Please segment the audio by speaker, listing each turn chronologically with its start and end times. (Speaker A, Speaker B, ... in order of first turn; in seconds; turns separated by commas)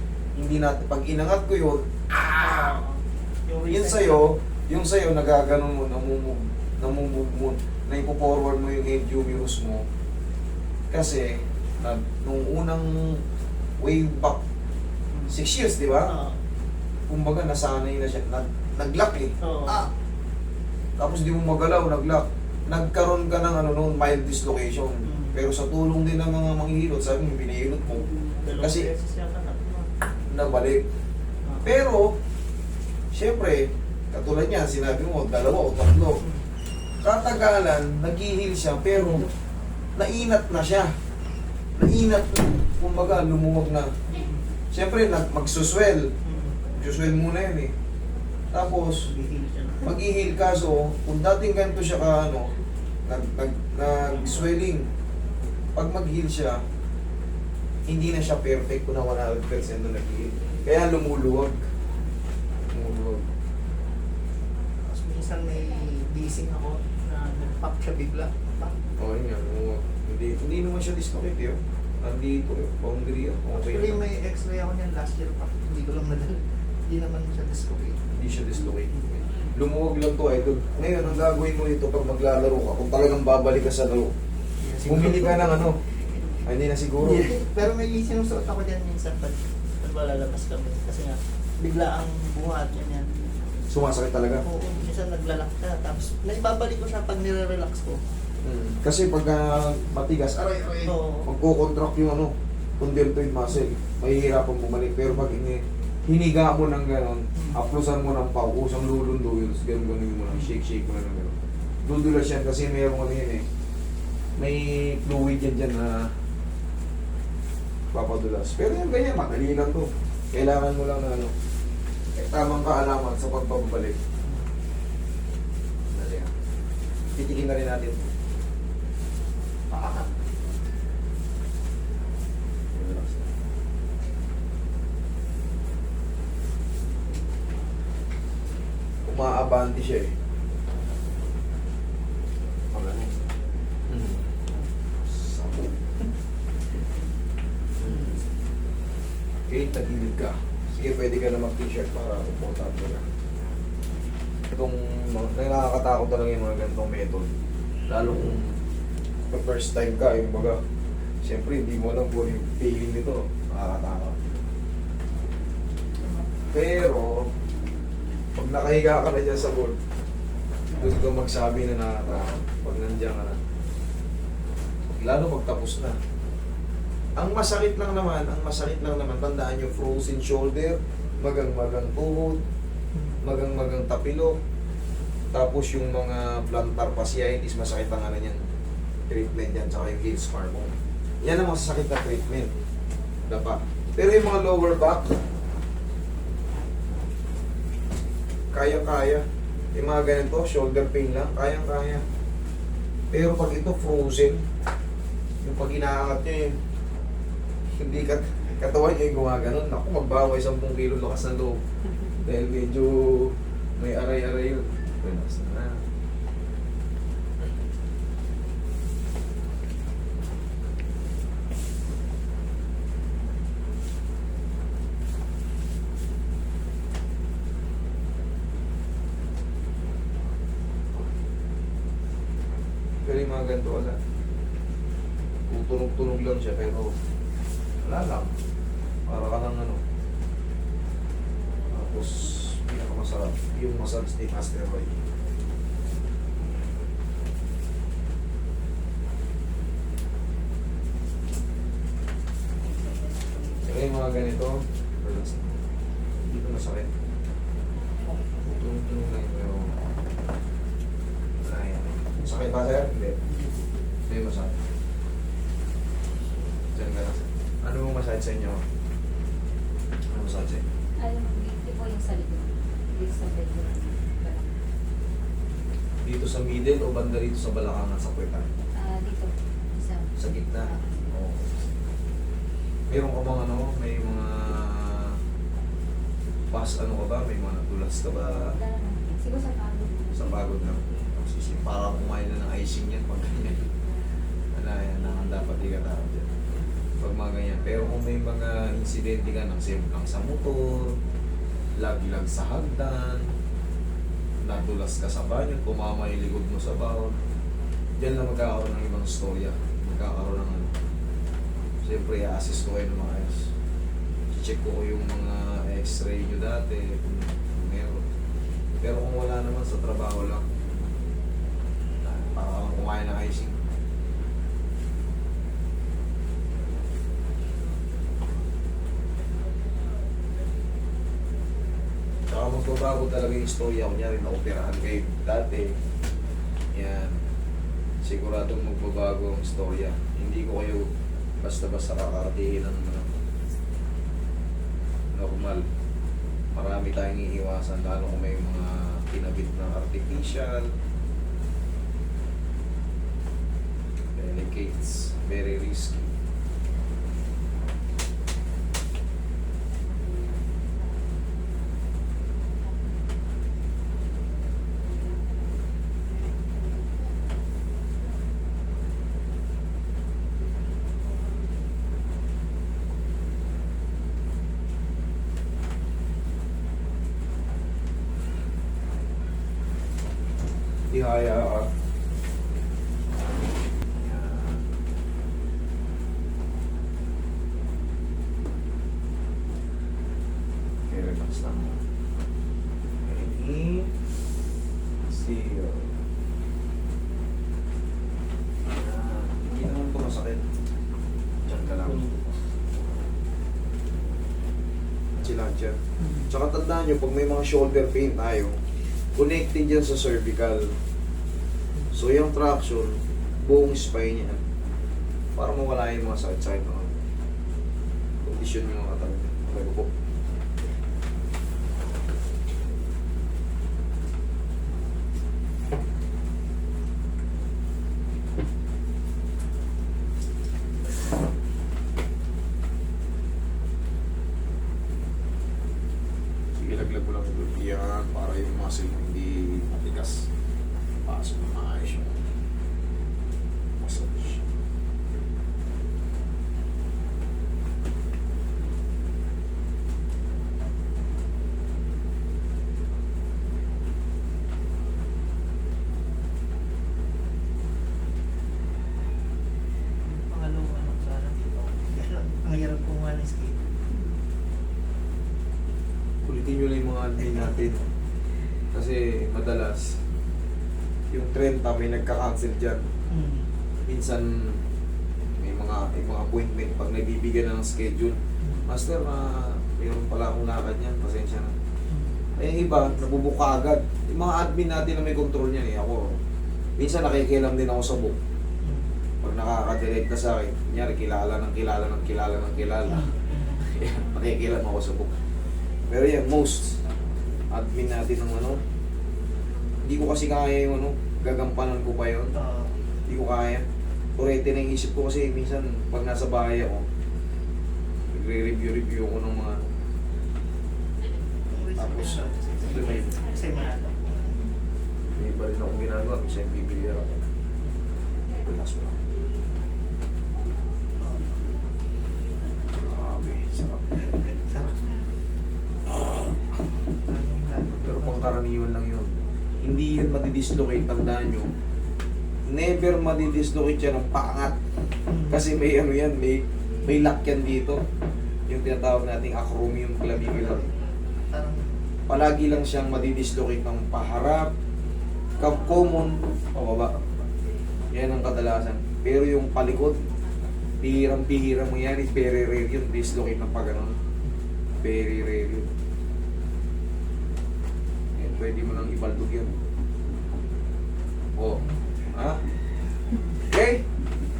Speaker A: 0.3-2.5, Speaker B: 2.3-4.2, Speaker A: 3.7-9.8, Speaker A: 10.9-13.2, Speaker A: 13.8-14.4, Speaker A: 15.3-16.1, Speaker B: 16.0-16.4, Speaker A: 17.1-19.9, Speaker B: 19.4-19.9, Speaker A: 21.0-28.9, Speaker B: 25.1-25.4, Speaker B: 28.4-30.0, Speaker A: 30.3-30.9, Speaker A: 31.6-32.1, Speaker A: 33.1-36.2, Speaker A: 37.0-39.3, Speaker A: 40.0-40.9, Speaker A: 41.8-44.0, Speaker B: 44.1-44.4, Speaker A: 44.7-46.1, Speaker B: 46.2-46.6, Speaker A: 46.8-47.7, Speaker A: 48.5-49.1, Speaker B: 48.5-50.0, Speaker A: 49.8-52.5, Speaker A: 53.0-54.9, Speaker B: 53.9-54.5, Speaker A: 55.8-56.6, Speaker A: 57.9-61.6, Speaker A: 62.7-63.2, Speaker B: 64.8-68.8, Speaker A: 69.0-74.0, Speaker B: 73.5-78.0, Speaker A: 78.1-84.1, Speaker B: 84.6-85.9, Speaker A: 84.8-85.8, Speaker A: 86.4-87.3, Speaker B: 87.0-93.1, Speaker A: 93.7-94.5, Speaker B: 94.4-98.0, Speaker A: 98.4-113.5, Speaker B: 100.9-101.3, Speaker A: 114.4-116.2, Speaker A: 117.9-121.3, Speaker A: 122.1-124.0, Speaker A: 125.9-126.3, Speaker A: 127.1-128.0, Speaker A: 129.7-130.2, Speaker A: 132.7-133.3, Speaker A: 139.0-140.1, Speaker A: 142.7-143.2, Speaker A: 143.9-144.3, Speaker A: 145.1-145.8, Speaker A: 147.8-148.2, Speaker A: 149.5-153.1, Speaker A: 154.5-157.3, Speaker A: 157.9-158.6, Speaker A: 159.3-160.6, Speaker A: 161.2-164.2, Speaker A: 166.5-167.3, Speaker A: 168.3-169.8, Speaker A: 170.7-173.4, Speaker A: 174.9-176.0, Speaker A: 177.2-182.4, Speaker A: 183.2-184.4, Speaker A: 185.3-188.4, Speaker A: 189.1-192.5, Speaker A: 193.3-195.2, Speaker A: 198.5-202.0, Speaker A: 203.1-204.4, Speaker A: 205.4-206.6, Speaker A: 207.8-211.6, Speaker A: 212.2-215.8, Speaker A: 233.0-234.0, Speaker A: 235.5-236.9, Speaker A: 237.8-238.3, Speaker A: 239.1-239.8, Speaker A: 241.7-244.9, Speaker A: 253.6-255.6, Speaker A: 256.2-256.9, Speaker A: 258.4-259.8, Speaker A: 261.4-263.2, Speaker A: 264.1-264.6, Speaker A: 266.7-268.6, Speaker A: 270.1-270.6, Speaker C: 271.0-274.6, Speaker A: 276.0-278.5, Speaker C: 278.7-281.0, Speaker A: 280.2-281.6, Speaker A: 282.9-285.2, Speaker A: 286.5-288.6, Speaker C: 288.4-290.6, Speaker A: 290.1-293.7, Speaker A: 294.5-296.3, Speaker A: 297.0-301.0, Speaker A: 301.8-303.3, Speaker A: 304.4-307.2, Speaker A: 308.0-310.7, Speaker A: 311.8-313.5, Speaker A: 314.3-318.0, Speaker A: 318.7-320.5, Speaker A: 322.0-323.6, Speaker A: 332.3-335.8, Speaker A: 336.7-337.2, Speaker A: 338.0-340.9, Speaker A: 341.4-343.1, Speaker A: 345.1-345.6, Speaker A: 346.5-350.7, Speaker A: 354.1-356.1, Speaker A: 380.9-381.7, Speaker A: 383.9-384.6, Speaker A: 390.9-391.8, Speaker A: 393.0-393.9, Speaker A: 395.1-396.0, Speaker A: 398.6-400.4, Speaker A: 401.4-402.3, Speaker A: 405.1-410.8, Speaker A: 411.9-414.4, Speaker A: 415.4-417.0, Speaker A: 418.2-419.9, Speaker A: 436.6-440.3, Speaker A: 441.0-442.2, Speaker A: 443.8-444.4, Speaker B: 460.0-463.6, Speaker A: 466.2-467.8, Speaker A: 468.7-470.0, Speaker A: 471.1-472.8, Speaker B: 473.1-473.5, Speaker A: 473.9-474.6, Speaker A: 475.4-481.5, Speaker B: 478.4-478.7, Speaker B: 481.9-482.2, Speaker A: 482.4-486.2, Speaker A: 486.8-488.2, Speaker A: 489.2-495.1, Speaker B: 492.9-493.6, Speaker A: 495.9-496.8, Speaker A: 497.5-498.6, Speaker A: 499.8-502.3, Speaker B: 502.3-502.7, Speaker A: 503.1-503.6, Speaker A: 504.2-506.9, Speaker A: 508.1-509.7, Speaker B: 511.5-514.4, Speaker A: 511.8-513.1, Speaker A: 515.1-517.2, Speaker A: 518.4-519.0, Speaker B: 521.0-521.3, Speaker A: 522.7-524.6, Speaker B: 524.4-524.9, Speaker B: 527.0-528.4, Speaker A: 527.8-531.5, Speaker A: 532.5-534.6, Speaker B: 535.1-535.4, Speaker A: 535.3-537.8, Speaker A: 538.5-540.6, Speaker B: 540.1-540.7, Speaker B: 541.3-541.8, Speaker A: 542.1-544.5, Speaker A: 545.4-547.2, Speaker A: 547.9-550.0, Speaker A: 550.8-554.0, Speaker A: 554.8-555.7, Speaker A: 558.1-559.5, Speaker A: 561.4-562.4, Speaker A: 563.5-563.8